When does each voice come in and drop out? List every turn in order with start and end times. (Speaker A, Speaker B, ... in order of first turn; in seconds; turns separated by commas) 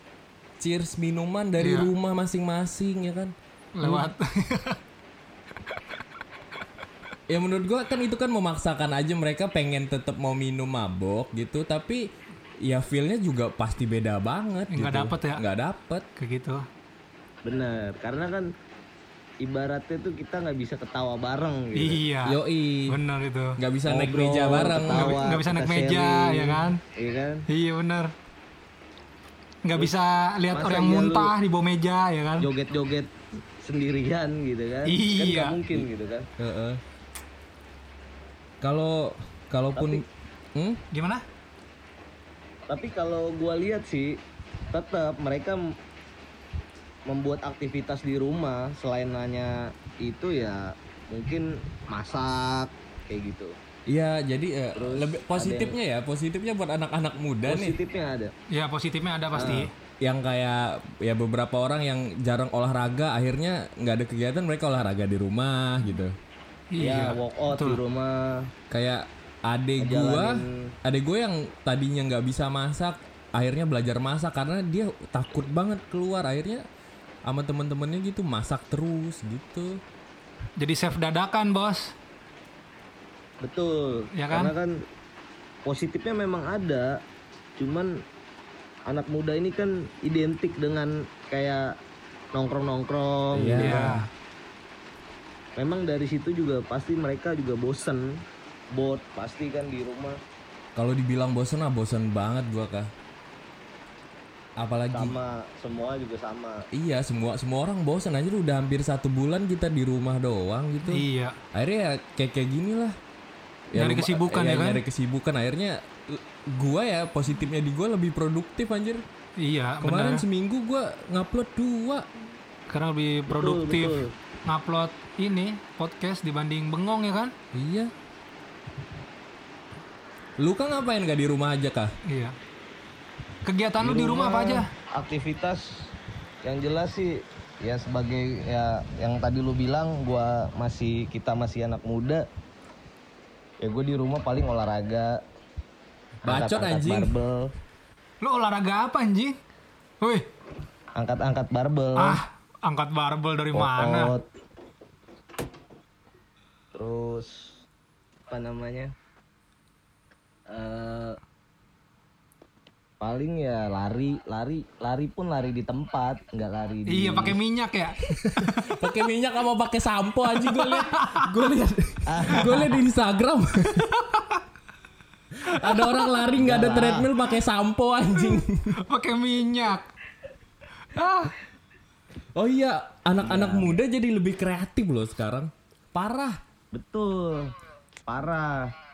Speaker A: 0.6-4.1, Speaker B: 1.6-1.9, Speaker B: 3.8-4.8, Speaker A: 7.3-12.1, Speaker A: 12.6-16.0, Speaker B: 14.7-15.4, Speaker B: 16.2-16.6, Speaker C: 17.4-18.5, Speaker C: 19.4-22.0, Speaker B: 21.7-23.6, Speaker A: 22.2-22.9, Speaker A: 23.6-25.2, Speaker C: 23.9-27.4, Speaker B: 24.9-26.8, Speaker B: 27.5-28.1, Speaker B: 29.6-32.5, Speaker C: 30.5-31.3, Speaker C: 32.4-36.3, Speaker B: 34.9-35.6, Speaker A: 36.4-36.8, Speaker A: 38.6-40.0, Speaker C: 39.8-40.0, Speaker A: 40.5-40.8, Speaker B: 40.9-41.2, Speaker C: 42.7-44.2, Speaker C: 44.7-45.6, Speaker C: 47.1-53.5, Speaker A: 53.9-57.8, Speaker C: 54.7-55.7, Speaker C: 57.5-58.3, Speaker B: 58.5-59.7, Speaker C: 59.3-59.7, Speaker A: 60.0-66.2, Speaker B: 66.7-67.8, Speaker C: 66.8-68.5, Speaker A: 68.7-76.6, Speaker C: 69.8-70.7, Speaker A: 77.2-79.8, Speaker B: 80.6-81.9, Speaker C: 83.4-84.8, Speaker B: 84.1-84.5, Speaker C: 85.7-87.0, Speaker C: 87.6-88.0, Speaker C: 88.9-91.8, Speaker C: 92.3-93.9, Speaker A: 93.3-94.1, Speaker B: 93.6-94.1, Speaker C: 95.6-98.2, Speaker C: 98.7-100.2, Speaker A: 100.7-102.9, Speaker A: 104.6-105.2, Speaker C: 104.9-106.6, Speaker A: 106.7-113.0, Speaker B: 110.9-111.4, Speaker A: 113.7-119.0, Speaker B: 113.7-114.8, Speaker B: 119.4-120.2, Speaker A: 119.8-122.1, Speaker B: 122.7-127.3, Speaker C: 123.3-124.2, Speaker A: 127.5-127.9, Speaker A: 130.4-131.9, Speaker B: 132.1-132.3, Speaker B: 133.4-134.7, Speaker C: 133.8-135.9, Speaker C: 136.4-142.2, Speaker C: 143.6-145.2, Speaker A: 146.2-147.1, Speaker C: 146.2-147.5, Speaker B: 148.2-149.3, Speaker B: 150.0-150.2, Speaker C: 151.0-152.2, Speaker B: 152.0-154.1, Speaker C: 153.5-154.2, Speaker C: 156.7-157.6, Speaker C: 158.3-158.9, Speaker C: 160.5-161.2, Speaker C: 163.0-167.4, Speaker B: 166.9-168.0, Speaker A: 168.1-173.9, Speaker B: 170.4-171.3, Speaker C: 172.1-172.7, Speaker B: 172.4-172.7, Speaker B: 173.9-174.4, Speaker A: 175.3-178.8, Speaker B: 175.5-176.2, Speaker C: 176.4-177.1, Speaker B: 178.2-179.8, Speaker B: 180.9-181.3, Speaker A: 182.3-186.4, Speaker C: 183.2-183.7, Speaker C: 186.7-187.5, Speaker C: 188.1-188.7